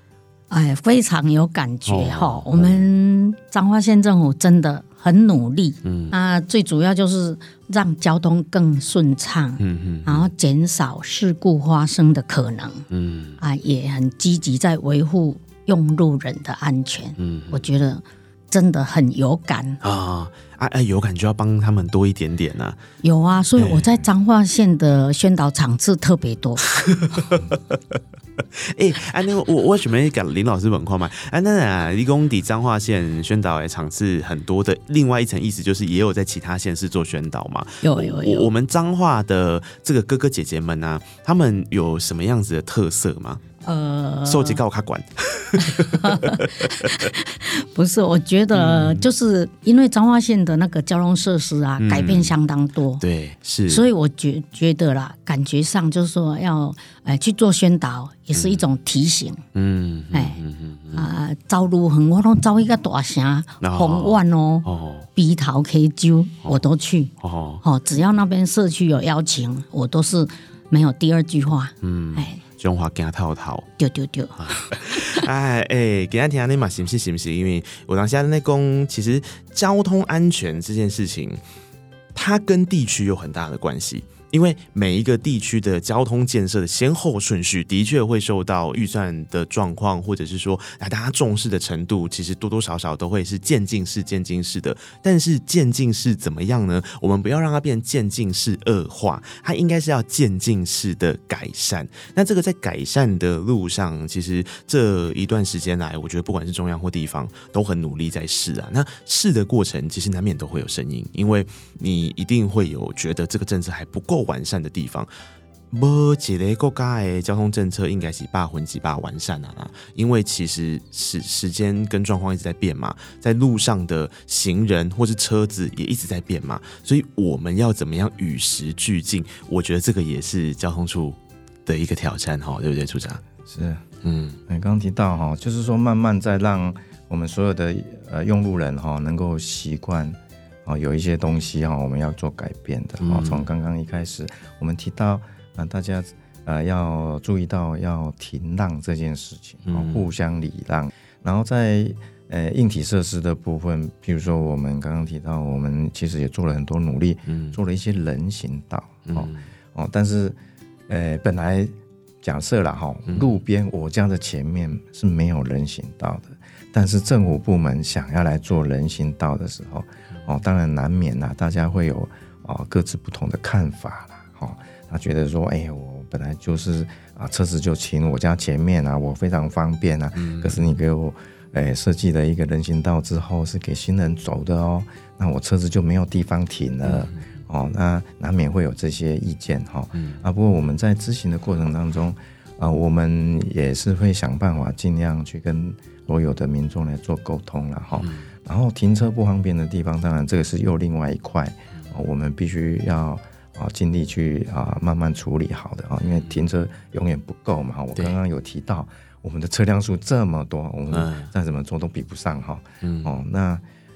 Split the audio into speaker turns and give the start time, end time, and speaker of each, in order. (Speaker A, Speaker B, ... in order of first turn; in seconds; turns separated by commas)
Speaker A: 0.5-12.8, Speaker B: 1.9-2.9, Speaker B: 5.8-6.1, Speaker B: 9.6-10.3, Speaker B: 12.9-13.4, Speaker A: 13.4-19.8, Speaker B: 17.2-17.7, Speaker B: 19.8-22.8, Speaker A: 23.0-26.7, Speaker B: 23.6-24.0, Speaker B: 26.6-27.8, Speaker B: 28.5-43.4, Speaker A: 37.8-38.5, Speaker A: 43.6-44.6, Speaker B: 44.2-47.1, Speaker A: 45.6-53.0, Speaker B: 48.5-49.1, Speaker B: 51.8-52.3, Speaker B: 53.0-53.8, Speaker A: 53.7-59.4, Speaker B: 58.3-58.6, Speaker B: 59.5-61.1, Speaker A: 60.1-60.4, Speaker A: 60.9-67.1, Speaker B: 63.6-65.1, Speaker B: 67.2-67.6, Speaker A: 67.6-72.4, Speaker B: 71.8-73.7, Speaker A: 73.8-75.2, Speaker B: 74.4-81.4, Speaker B: 82.1-115.1, Speaker B: 115.7-133.2, Speaker C: 133.4-133.8, Speaker B: 134.0-134.4, Speaker C: 134.5-160.3, Speaker B: 143.0-143.4, Speaker B: 149.6-150.1, Speaker B: 157.2-157.6, Speaker B: 159.1-159.5, Speaker C: 160.9-213.6, Speaker B: 163.1-163.3, Speaker B: 180.2-180.8, Speaker B: 186.8-187.3, Speaker B: 189.9-190.2, Speaker B: 198.0-198.3, Speaker B: 206.0-206.5, Speaker B: 210.9-211.3, Speaker B: 212.8-213.2